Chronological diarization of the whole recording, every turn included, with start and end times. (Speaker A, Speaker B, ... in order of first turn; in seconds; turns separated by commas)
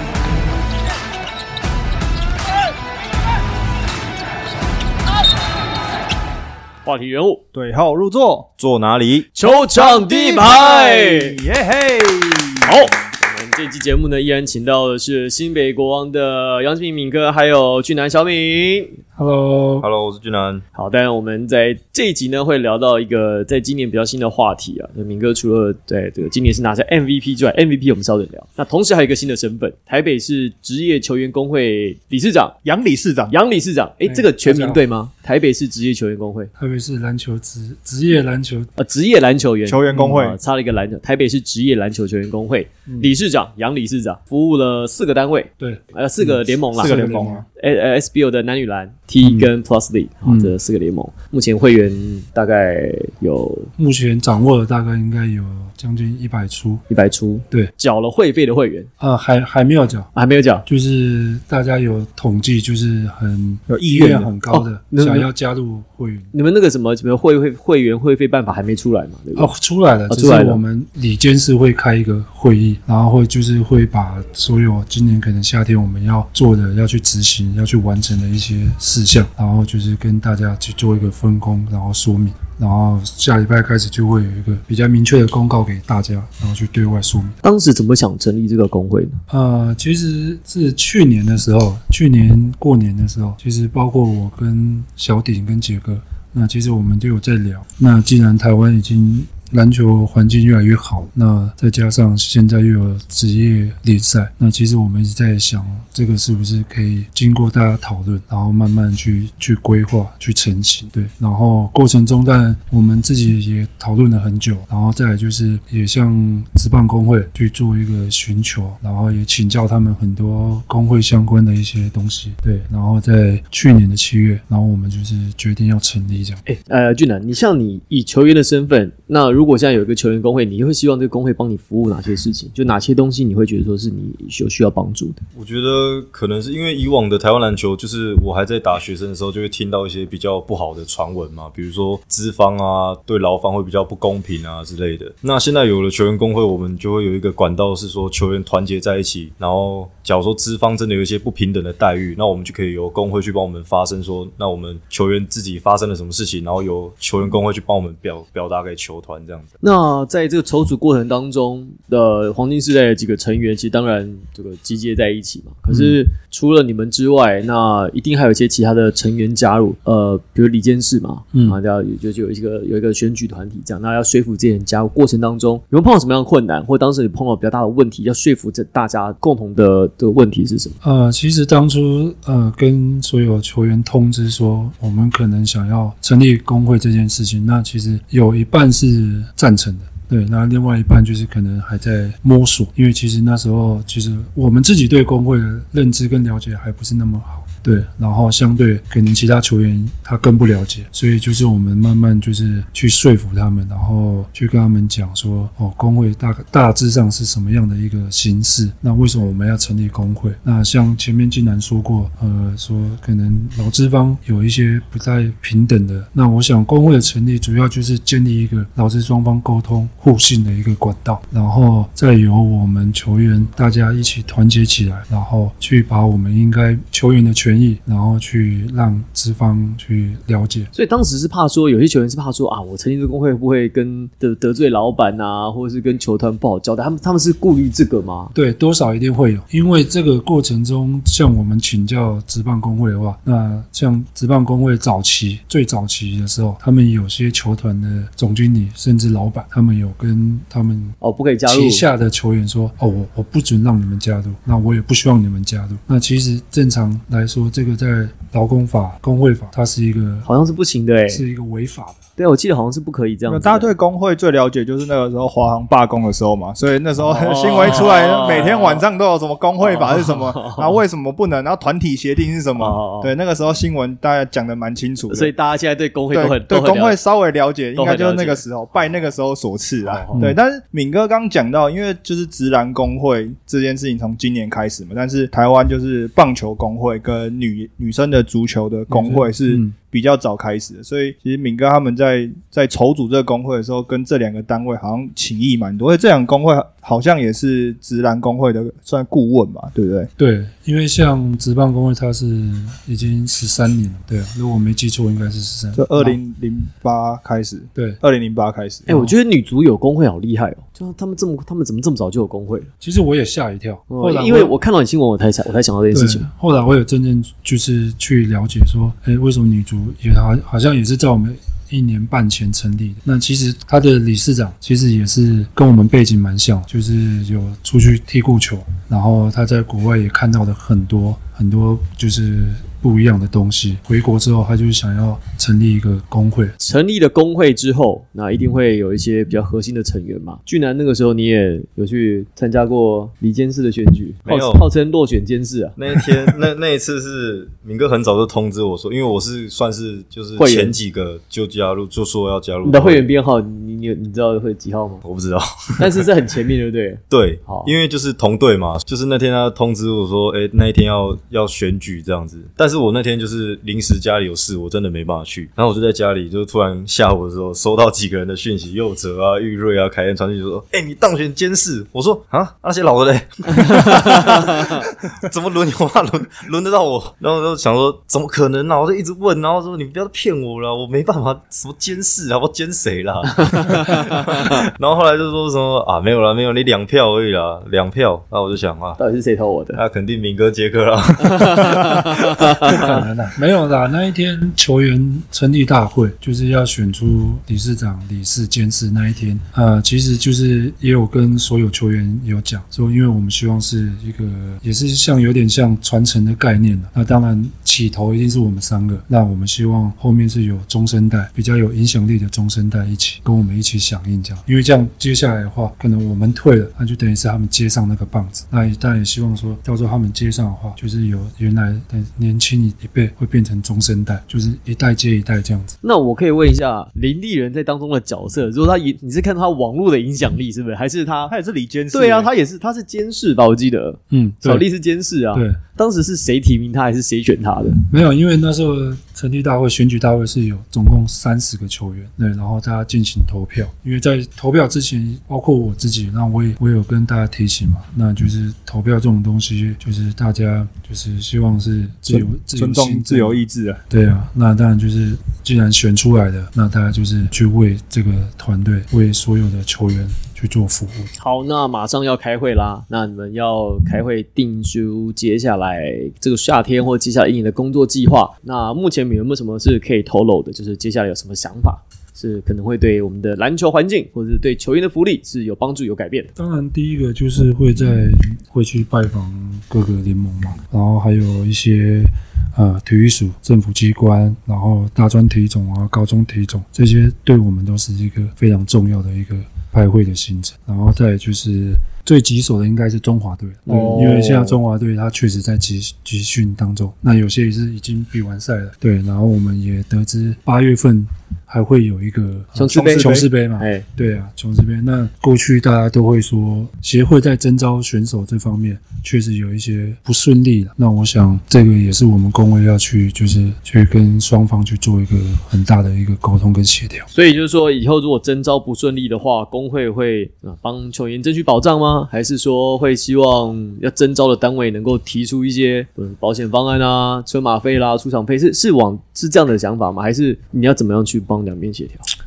Speaker A: 6.8-7.4, Speaker B: 7.5-8.5, Speaker C: 8.6-9.3, Speaker A: 9.4-11.4, Speaker B: 9.4-13.0, Speaker A: 12.7-19.0, Speaker D: 19.2-19.9, Speaker C: 19.8-20.6, Speaker A: 20.8-32.5, Speaker B: 32.6-33.4, Speaker A: 33.3-36.5, Speaker D: 34.0-34.8, Speaker D: 36.6-38.7, Speaker A: 38.8-47.0, Speaker B: 39.6-40.4, Speaker D: 42.9-43.1, Speaker D: 45.6-47.5, Speaker B: 46.8-47.5, Speaker A: 47.6-53.7, Speaker D: 49.2-49.5, Speaker D: 50.2-50.5, Speaker D: 53.8-56.8, Speaker A: 56.9-58.9, Speaker D: 59.0-60.1, Speaker A: 60.1-60.6, Speaker D: 60.6-66.3, Speaker B: 63.7-64.3, Speaker A: 64.5-65.3, Speaker A: 66.3-69.5, Speaker D: 69.3-87.4, Speaker A: 70.1-70.6, Speaker A: 87.4-89.2, Speaker D: 89.3-126.4, Speaker A: 126.5-135.2, Speaker C: 135.3-159.5, Speaker A: 159.6-180.8, Speaker D: 165.7-166.0, Speaker D: 180.8-230.7, Speaker A: 230.7-238.3, Speaker D: 238.3-250.9, Speaker A: 251.0-251.8, Speaker D: 251.5-260.3, Speaker A: 260.3-261.2, Speaker D: 261.1-262.0, Speaker A: 262.2-263.7, Speaker B: 263.3-275.3, Speaker A: 267.0-268.9, Speaker A: 269.6-270.8, Speaker A: 272.6-273.1, Speaker A: 275.1-277.0, Speaker B: 276.1-300.1, Speaker A: 277.8-278.4, Speaker A: 279.8-280.2, Speaker D: 280.1-280.4, Speaker D: 288.9-289.7, Speaker D: 300.2-306.2, Speaker B: 305.8-308.9, Speaker D: 307.8-308.0, Speaker A: 308.9-312.7, Speaker D: 308.9-309.2, Speaker D: 312.8-314.5, Speaker A: 313.9-316.3, Speaker D: 315.9-336.6, Speaker A: 336.6-345.8, Speaker C: 344.3-344.6, Speaker C: 345.8-353.1, Speaker A: 350.4-350.8, Speaker A: 352.6-355.0, Speaker C: 355.0-356.1, Speaker A: 355.8-357.7, Speaker C: 357.1-389.0, Speaker A: 373.6-374.8, Speaker A: 383.4-384.0, Speaker A: 389.0-389.8, Speaker C: 389.7-392.6, Speaker A: 391.2-393.0, Speaker D: 392.6-425.8, Speaker A: 425.8-431.3, Speaker B: 431.3-432.3, Speaker A: 431.9-437.8, Speaker D: 434.1-434.7, Speaker D: 435.3-435.6, Speaker D: 437.9-461.1, Speaker B: 452.1-453.8, Speaker A: 461.2-476.3, Speaker D: 476.4-517.1, Speaker A: 493.7-494.6, Speaker B: 493.7-494.0, Speaker A: 502.6-503.9, Speaker B: 502.7-503.3, Speaker A: 517.1-532.0